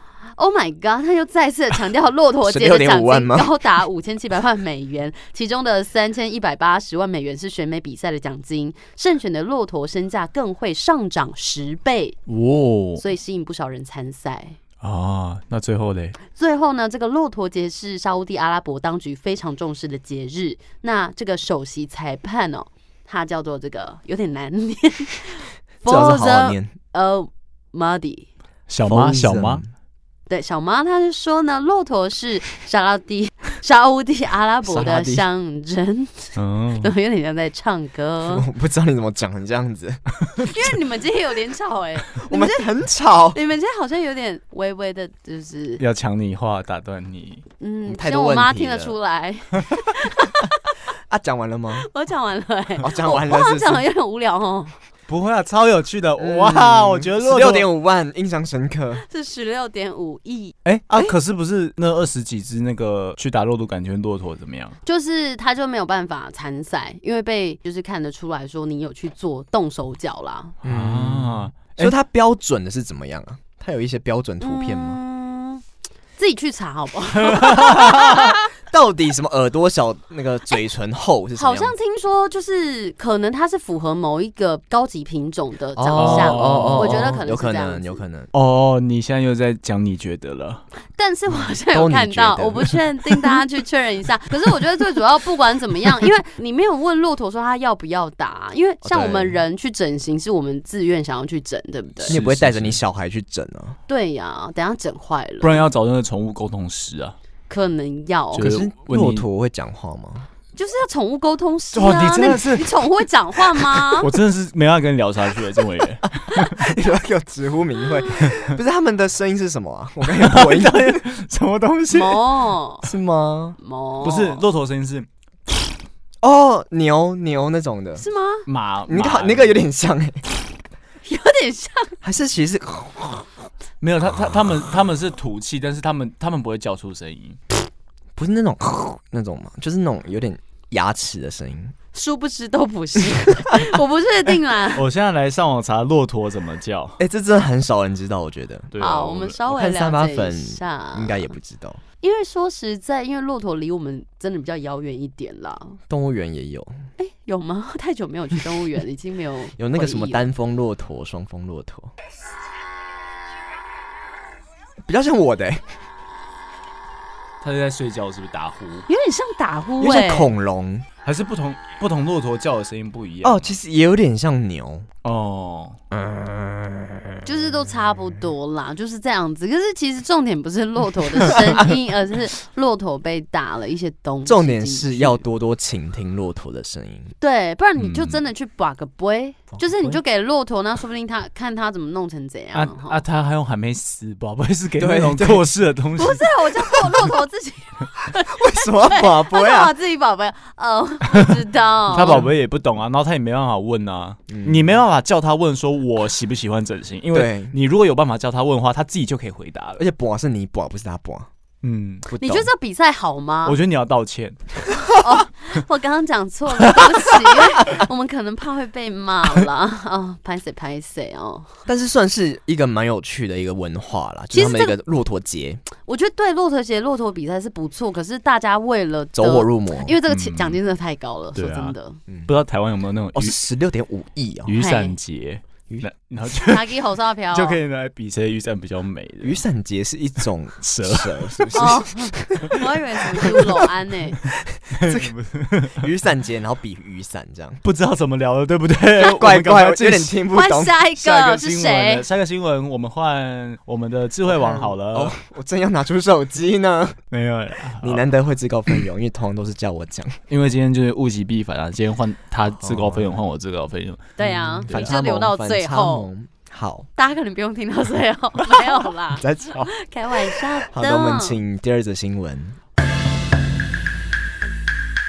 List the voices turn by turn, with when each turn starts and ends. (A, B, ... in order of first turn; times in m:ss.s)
0:00.4-0:12.2 A
0:02.4-0:03.5 B
0:12.3-0:13.0 C
0:13.0-0:14.6 A
0:14.8-0:16.2 C
0:16.3-0:28.3 A
0:25.8-0:26.7 B
0:28.7-0:29.6 C
0:28.8-0:29.6 B
0:30.3-0:38.4 A
0:34.7-0:35.2 B
0:36.4-0:36.9 C
0:38.3-0:40.6 B
0:40.4-0:42.6 A
0:42.2-0:43.4 B
0:43.3-0:45.8 A
0:45.8-0:47.4 C
0:47.6-0:50.5 A
0:47.8-0:48.9 B
0:51.1-0:51.9 B
0:51.8-0:54.8 A
0:52.8-0:53.8 B
0:55.1-0:57.7 C
0:56.2-0:59.0 B
0:59.0-1:00.5 A
1:00.6-1:04.8 C
1:04.8-1:10.5 A
1:10.6-1:15.0 B
1:10.6-1:11.9 C
1:14.4-1:15.6 A
1:16.2-1:18.5 A
1:17.2-1:18.2 C
1:17.7-1:21.7 B
1:21.4-1:28.0 A
1:25.8-1:28.3 B
1:26.0-1:27.2 C
1:28.3-1:30.6 C
1:30.9-1:42.2 A
1:31.6-1:32.8 B
1:38.8-1:39.4 B
1:42.0-1:42.8 C
1:42.1-1:43.8 B
1:43.9-1:45.6 A
1:45.4-1:47.2 C
1:47.5-1:48.5 A
1:48.3-1:49.2 C
1:48.4-1:50.3 B
1:50.5-1:54.1 A
1:51.7-1:52.7 C
1:53.8-1:56.6 C
1:56.3-2:01.0 B
2:00.1-2:02.2 C
2:01.9-2:02.9 A
2:02.8-2:03.6 B
2:03.6-2:04.4 A
2:04.0-2:05.1 C
2:06.2-2:08.0 B
2:08.0-2:08.4 A
2:08.5-2:09.6 C
2:08.9-2:10.2 B
2:11.0-2:12.0 A
2:12.0-2:13.3 B
2:13.8-2:17.4 C
2:18.2-2:21.7 B
2:21.9-2:24.8 A
2:24.7-2:27.0 C
2:27.0-2:28.7 B
2:28.7-2:29.4 C
2:28.8-2:31.3 A
2:29.5-2:31.8 B
2:32.0-2:35.8 A
2:35.9-2:36.7 B
2:37.0-2:40.2 A
2:39.6-2:41.9 B
2:44.8-2:45.7 B
2:47.4-2:48.8 C
2:48.9-2:50.3 A
2:49.8-2:50.8 B
2:51.0-2:53.5 C
2:53.2-2:54.9 B
2:55.0-2:55.8 C
2:55.9-2:57.0 B
2:57.2-3:05.2 A
3:01.3-3:01.6 B
3:04.2-3:07.1 B
3:07.2-3:13.0 A
3:07.8-3:08.2 C
3:09.5-3:10.0 B
3:12.5-3:16.3 C
3:14.8-3:15.4 B
3:16.0-3:22.2 A
3:18.3-3:19.7 B
3:21.9-3:29.8 C
3:24.3-3:24.8 B
3:27.1-3:27.5 B
3:29.8-3:31.3 B
3:31.6-3:32.1 C
3:32.1-3:32.5 B
3:32.2-3:33.6 A
3:33.4-3:34.4 C
3:34.9-3:41.5 A
3:41.7-3:45.6 B
3:44.3-3:44.7 A
3:45.8-3:52.0 A
3:49.1-3:50.0 B
3:50.1-3:50.6 C
3:51.3-3:51.7 C
3:52.3-3:53.4 C
3:53.1-3:54.5 B
3:54.4-3:56.7 C
3:54.6-3:54.9 A
3:56.3-3:57.6 A
3:57.3-3:59.4 C
3:59.2-4:03.5 B
4:00.7-4:01.8 C
4:01.5-4:04.2 A
4:04.4-4:05.1 B
4:04.7-4:05.8 C
4:05.7-4:07.6 B
4:07.6-4:10.2 C
4:09.0-4:10.8 B
4:10.3-4:12.0 A
4:11.0-4:15.1 C
4:14.3-4:17.0 B
4:17.1-4:18.0 C
4:17.8-4:20.2 B
4:20.3-4:24.9 C
4:22.6-4:23.2 B
4:24.2-4:26.1 A
4:24.2-4:26.9 B
4:27.0-4:31.4 A
4:29.2-4:29.7 B
4:30.7-4:32.6 B